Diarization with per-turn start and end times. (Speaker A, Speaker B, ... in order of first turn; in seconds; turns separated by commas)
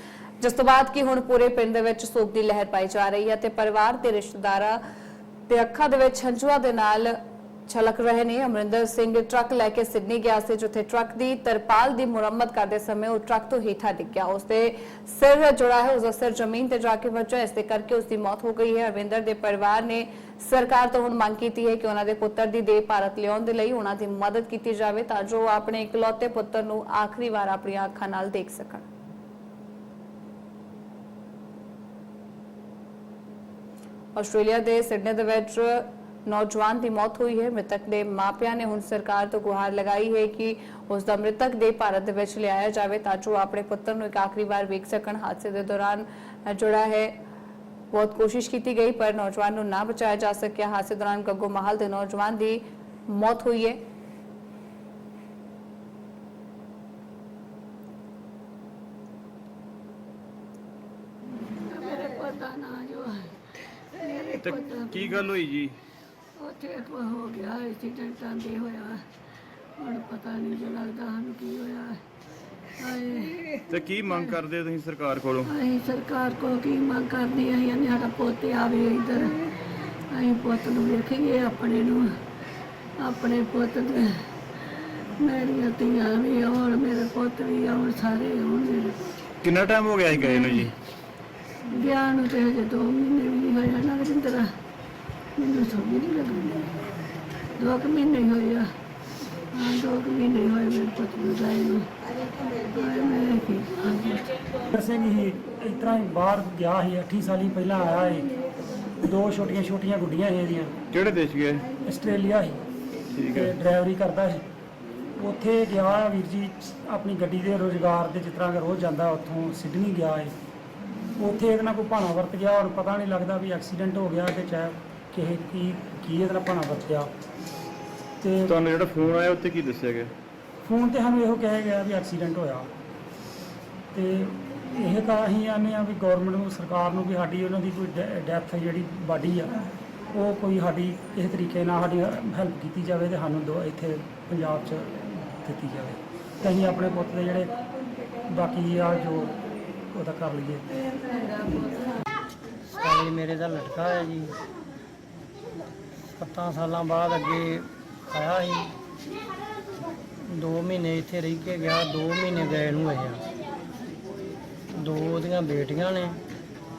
Speaker A: 0.4-4.8, Speaker A: 5.5-28.8, Speaker A: 34.1-47.1, Speaker A: 47.9-53.8, Speaker B: 61.5-63.3, Speaker B: 63.9-65.3, Speaker C: 64.4-65.8, Speaker B: 66.4-69.1, Speaker B: 69.8-72.0, Speaker B: 72.8-73.6, Speaker C: 73.7-75.5, Speaker B: 75.5-79.6, Speaker B: 80.1-82.2, Speaker B: 83.0-89.0, Speaker C: 89.4-90.7, Speaker B: 90.3-90.6, Speaker B: 91.7-94.5, Speaker B: 95.4-96.8, Speaker B: 97.5-98.7, Speaker B: 99.5-101.9, Speaker B: 102.5-104.4, Speaker D: 104.7-108.3, Speaker D: 108.9-110.7, Speaker C: 110.9-111.7, Speaker D: 111.8-112.6, Speaker C: 113.1-113.5, Speaker D: 113.3-114.4, Speaker D: 115.2-120.3, Speaker D: 121.2-127.1, Speaker D: 128.2-128.6, Speaker C: 128.5-130.1, Speaker D: 130.6-132.7, Speaker D: 133.9-139.6, Speaker D: 140.1-147.5, Speaker D: 148.2-149.4, Speaker D: 149.9-150.7, Speaker E: 152.7-154.3, Speaker E: 156.1-158.7, Speaker E: 160.3-163.2, Speaker E: 164.7-166.2